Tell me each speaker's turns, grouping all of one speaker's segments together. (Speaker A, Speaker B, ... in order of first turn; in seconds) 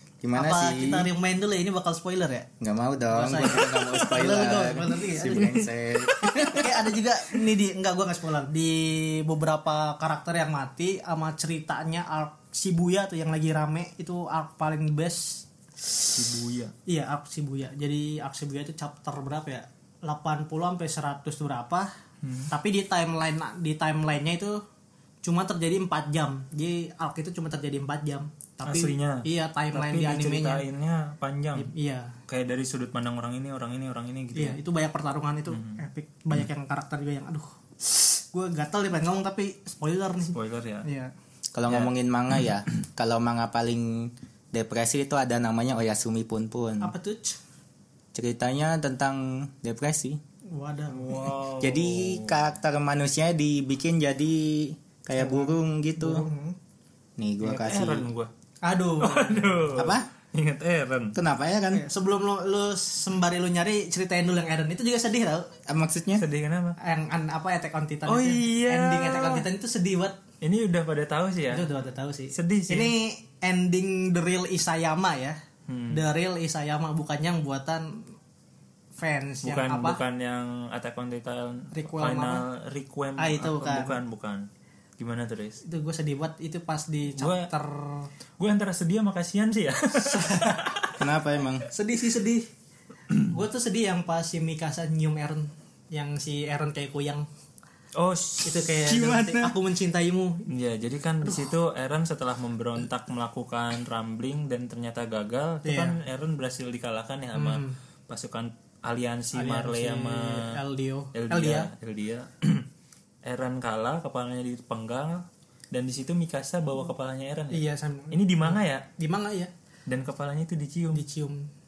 Speaker A: 0.2-1.1, 2.6-6.8, 41.5-46.9, 48.1-50.2, 51.6-56.3, 57.2-58.1, 59.7-60.1, 61.1-61.8, 65.7-66.2, 91.0-91.7
Speaker B: 0.3-2.5, 3.1-5.7, 6.4-15.4, 16.9-21.9, 22.5-24.6, 25.2-30.6, 31.6-32.1, 34.4-41.1, 46.8-47.4, 50.5-51.3, 55.2-56.5, 58.6-59.7, 61.7-65.5, 66.8-70.2, 71.5-75.4, 75.9-78.1, 79.0-80.0, 81.7-82.5, 83.2-84.0, 85.6-88.1, 90.0-90.8, 91.7-92.5, 93.2-97.3, 98.4-100.5, 105.6-106.0, 107.3-107.8, 109.3-111.7, 117.5-119.5, 120.9-121.5
Speaker C: 16.1-16.7, 22.2-22.5, 28.6-31.7, 32.3-34.6, 35.5-35.8, 40.3-40.9, 41.7-41.9, 50.9-52.5, 57.4-58.3, 59.0-61.1, 66.2-66.8, 68.1-69.4, 70.4-71.7, 72.3-72.9, 75.7-76.0, 79.4-84.5, 85.0-85.6, 87.2-87.5, 88.4-91.0, 98.0-99.5, 100.5-110.5, 111.1-112.7, 113.2-118.9, 119.9-121.0